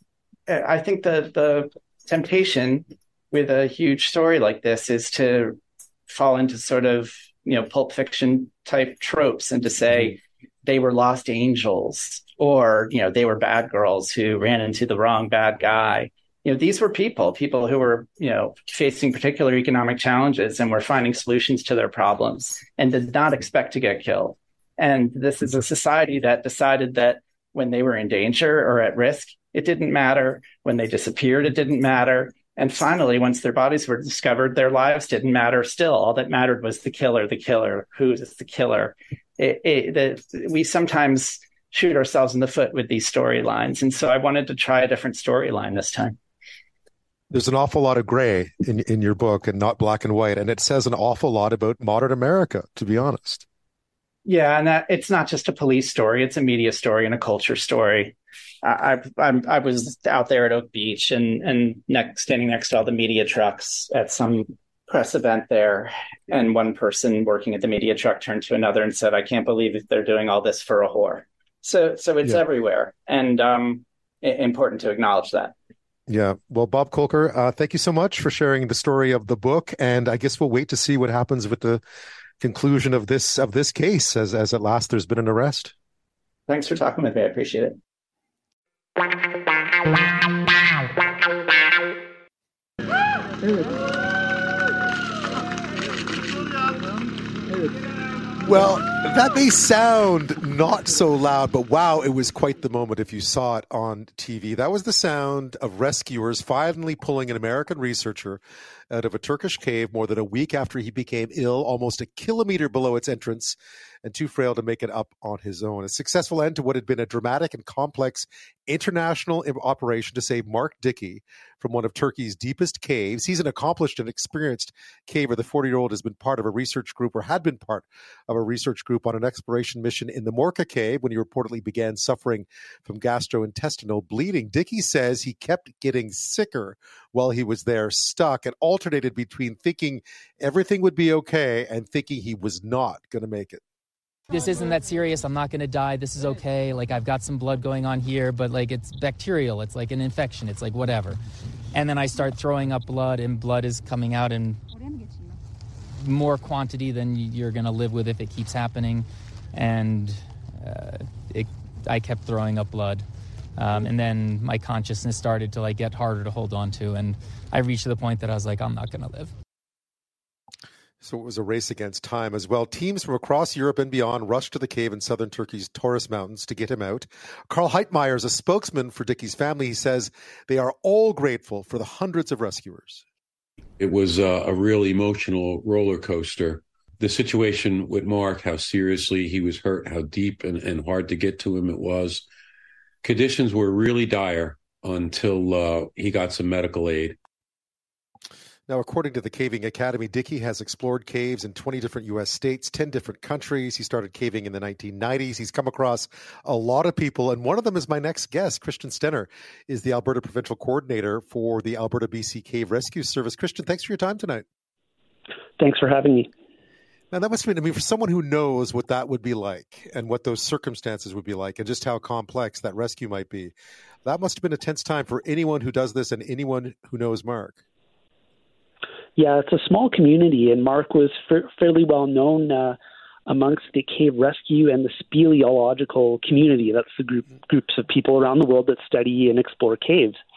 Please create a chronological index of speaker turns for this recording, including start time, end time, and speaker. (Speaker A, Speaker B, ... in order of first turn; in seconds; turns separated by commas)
Speaker A: 0.5-46.2, Speaker B: 47.3-53.4, Speaker A: 54.2-75.5, Speaker B: 76.1-81.8, Speaker B: 82.4-85.7, Speaker A: 86.5-87.8, Speaker B: 98.4-143.6, Speaker C: 144.3-151.2, Speaker C: 151.7-154.6, Speaker C: 156.0-163.1, Speaker C: 163.6-169.3, Speaker B: 171.0-183.0, Speaker D: 183.8-192.2, Speaker D: 193.0-197.2, Speaker B: 198.7-214.4, Speaker E: 215.6-216.3, Speaker B: 217.1-223.5, Speaker B: 224.0-227.6, Speaker E: 229.2-240.2